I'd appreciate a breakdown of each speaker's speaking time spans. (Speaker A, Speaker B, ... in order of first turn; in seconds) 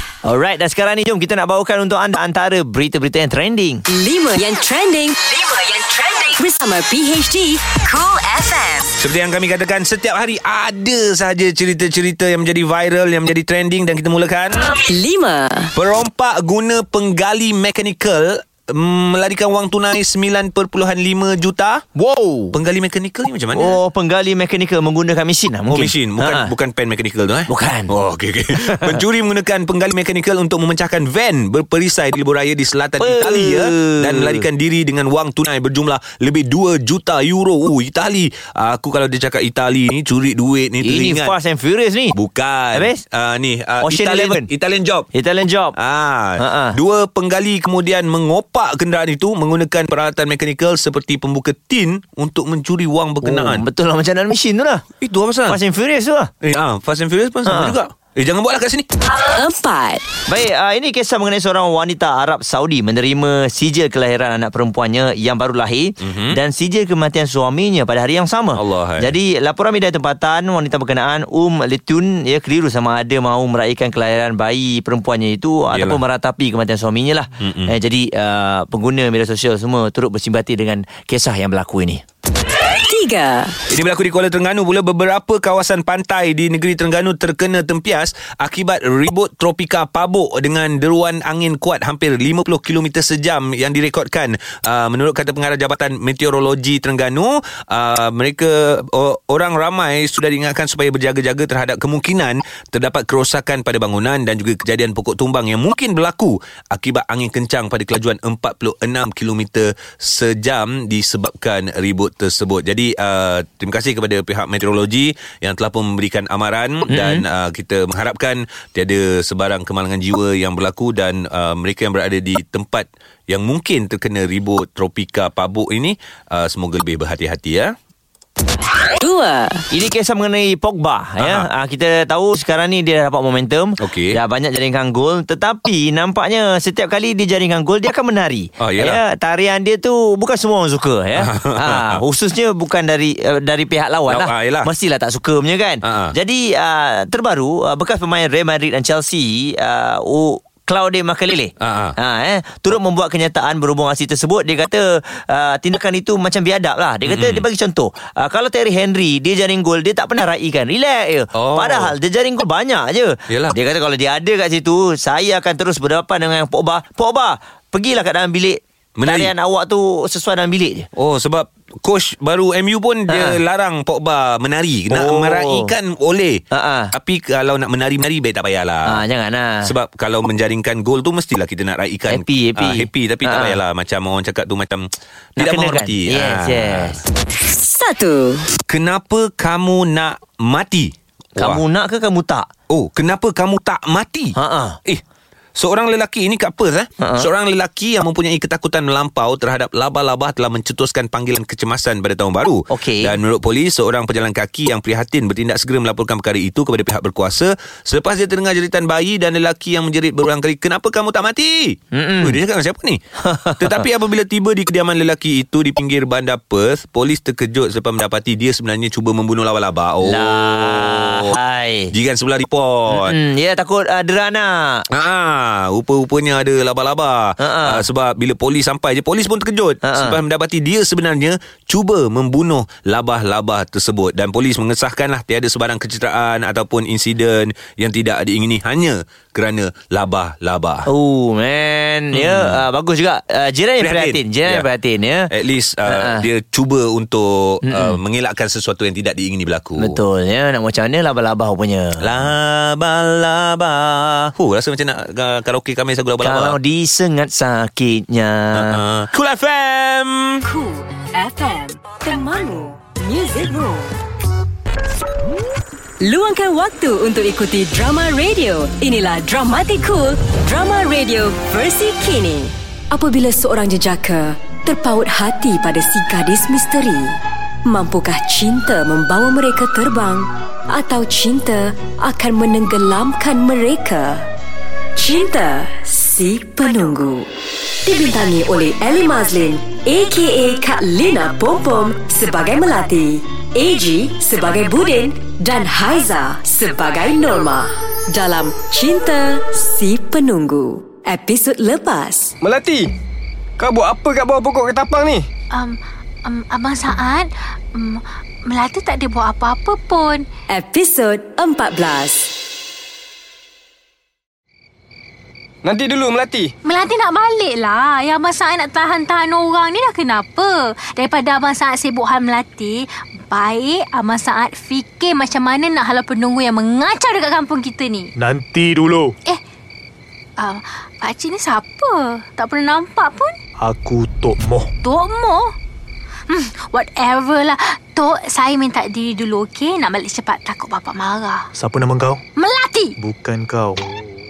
Speaker A: 0.2-3.8, 22.0-22.6, 23.5-26.5, 27.5-27.9, 28.5-29.0, 33.0-34.5, 40.8-42.1, 42.7-43.0, 43.8-44.5, 45.1-45.8, 46.4-46.8, 53.2-54.8, 55.5-56.3, 57.5-57.8, 60.3-82.0, 116.9-117.2, 129.7-170.9, 173.1-173.4, 174.9-175.7, 176.5-176.9, 178.9-179.7, 182.1-183.6, 185.4-187.0, 191.4-192.5, 194.4-194.8, 197.0-197.3, 202.7-203.2, 211.9-212.4, 213.2-213.8, 220.0-221.9, 222.9-224.8, 227.4-227.8, 229.8-230.2, 240.9-245.3, 245.9-246.3, 247.7-248.0, 249.8-252.2, 256.2-258.8
Speaker B: 3.9-8.9, 14.7-15.7, 59.2-60.1, 82.7-83.6, 129.0-129.7, 187.4-188.5, 260.4-264.0, 266.0-284.3, 285.0-287.3, 287.8-302.4, 310.5-312.3
Speaker C: 9.0-14.8, 15.8-21.9, 22.5-23.8, 25.7-41.3, 42.1-45.1, 45.8-53.6, 55.0-55.6, 56.4-58.9, 66.0-66.4, 68.5-69.1, 75.7-76.0, 77.4-77.7, 83.7-127.7, 131.2-131.5, 133.8-134.2, 138.6-139.0, 141.2-142.0, 144.1-144.7, 145.8-146.1, 151.6-152.0, 157.1-157.4, 161.3-161.9, 163.3-163.6, 169.0-169.3, 171.0-176.4, 176.9-179.0, 179.6-187.0, 188.7-191.6, 192.7-195.0, 195.6-213.0, 213.6-221.3, 221.9-223.2, 224.9-240.9, 242.1-242.6, 243.8-244.7, 245.3-250.0, 252.0-256.6, 258.5-260.4
Speaker D: 302.4-302.9, 303.6-305.3, 315.6-316.5
Speaker E: 305.5-310.3, 316.6-328.1, 330.4-333.4, 334.8-335.5, 336.3-341.5, 342.4-342.9
Speaker F: 328.2-329.1, 333.6-334.7, 341.6-342.2, 343.0-344.0